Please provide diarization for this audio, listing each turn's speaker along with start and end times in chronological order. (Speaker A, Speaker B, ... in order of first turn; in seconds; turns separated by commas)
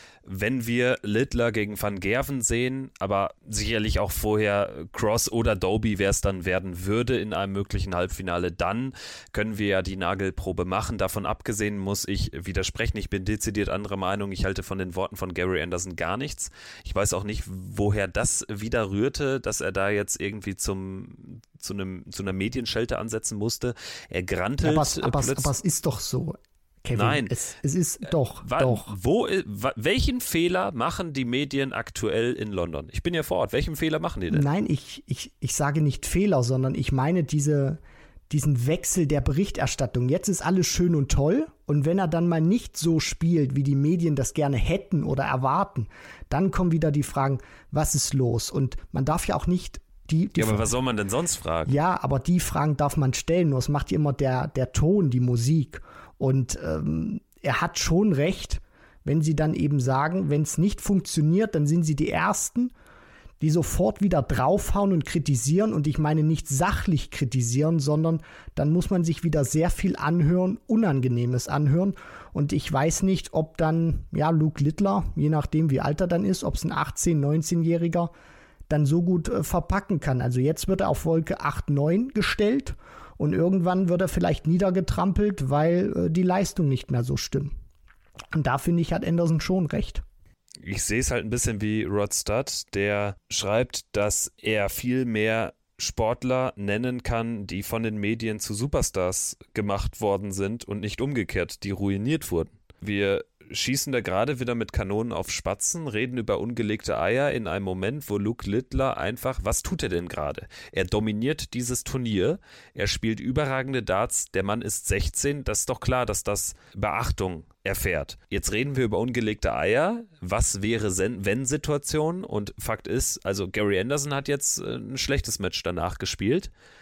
Speaker A: 0.2-25.5, Speaker B: 24.6-28.9, Speaker A: 26.9-27.4, Speaker A: 28.4-34.4, Speaker B: 34.3-50.7, Speaker A: 50.4-51.7, Speaker B: 51.7-62.7, Speaker B: 63.4-78.1, Speaker B: 78.7-87.5, Speaker B: 88.3-90.0, Speaker A: 90.6-126.5